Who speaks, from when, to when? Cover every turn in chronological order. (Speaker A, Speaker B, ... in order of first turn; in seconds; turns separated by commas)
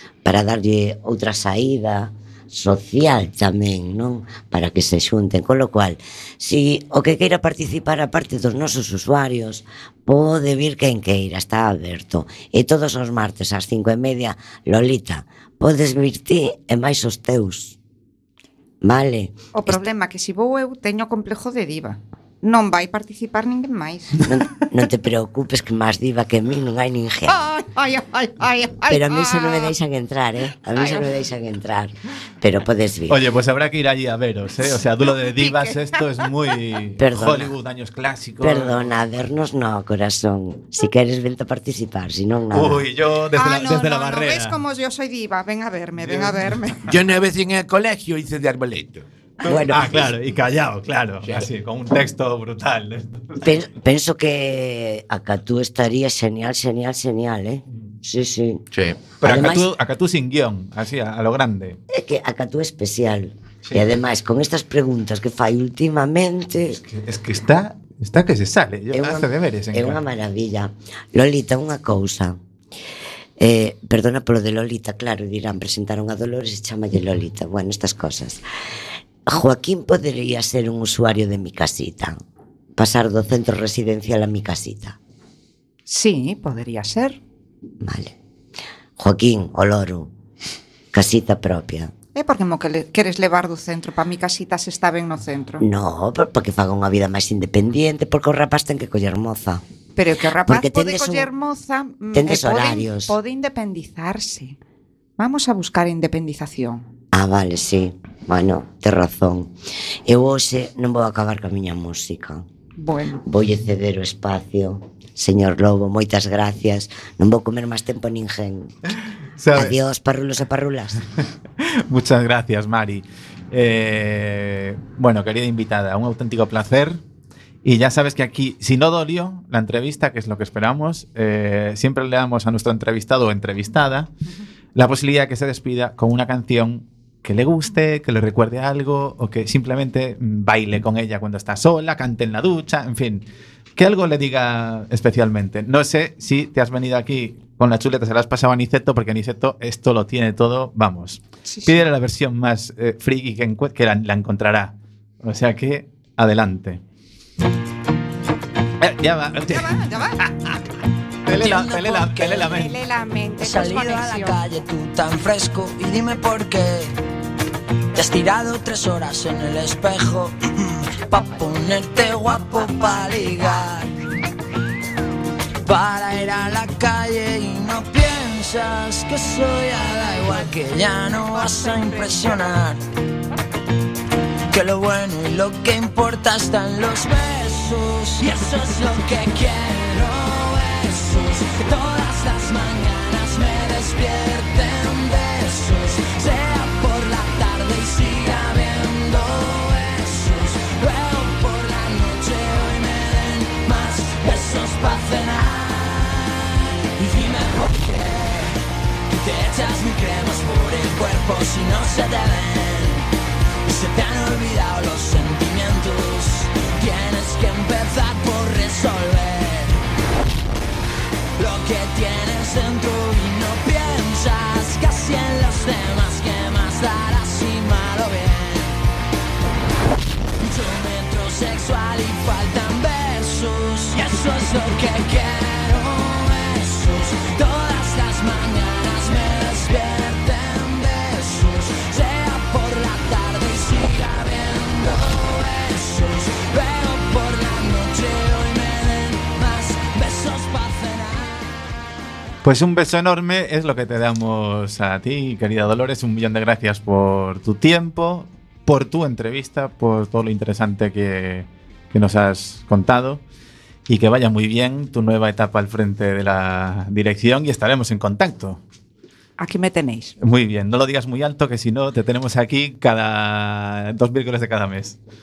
Speaker A: 0.2-17.8, Speaker A: 18.8-19.8, Speaker B: 19.5-24.2, Speaker A: 24.2-27.4, Speaker B: 27.3-29.7, Speaker A: 28.9-33.2, Speaker B: 30.8-31.1, Speaker C: 33.1-38.9, Speaker B: 35.0-35.9, Speaker A: 37.0-37.5, Speaker A: 38.4-42.9, Speaker C: 42.5-44.6, Speaker B: 43.4-46.9, Speaker C: 46.0-46.4, Speaker D: 46.9-49.1, Speaker A: 49.4-50.1, Speaker C: 49.5-53.7, Speaker A: 53.4-58.6, Speaker D: 58.7-59.2, Speaker C: 59.2-61.8, Speaker A: 59.2-59.7, Speaker A: 61.9-66.8, Speaker C: 66.7-70.0, Speaker A: 68.9-72.4, Speaker A: 73.4-78.4, Speaker A: 79.3-82.2, Speaker A: 82.8-85.0, Speaker B: 85.9-87.2, Speaker A: 87.8-88.1, Speaker A: 89.0-90.1, Speaker A: 90.9-91.9, Speaker B: 92.2-95.6, Speaker A: 95.6-99.6, Speaker B: 100.0-104.6, Speaker A: 100.5-101.3, Speaker A: 102.1-103.1, Speaker B: 105.2-106.8, Speaker A: 107.1-109.5, Speaker A: 110.1-112.5, Speaker B: 112.8-113.2, Speaker A: 113.2-118.7, Speaker C: 119.4-119.8, Speaker A: 119.5-121.0, Speaker C: 121.6-127.0, Speaker C: 127.6-134.1, Speaker C: 134.8-143.2, Speaker C: 143.8-156.8, Speaker B: 151.5-151.8, Speaker C: 158.8-160.6, Speaker B: 159.5-160.3, Speaker C: 161.2-162.8, Speaker E: 161.4-162.4, Speaker B: 162.4-164.4, Speaker E: 163.4-166.9, Speaker E: 168.0-170.3, Speaker E: 171.1-173.9, Speaker E: 175.6-182.8, Speaker E: 184.5-206.3, Speaker E: 207.0-208.5, Speaker E: 209.2-213.0, Speaker E: 213.7-219.8, Speaker E: 221.4-228.8, Speaker E: 230.4-251.5, Speaker C: 252.4-263.2, Speaker C: 263.9-268.6, Speaker B: 269.4-270.1, Speaker C: 270.2-275.0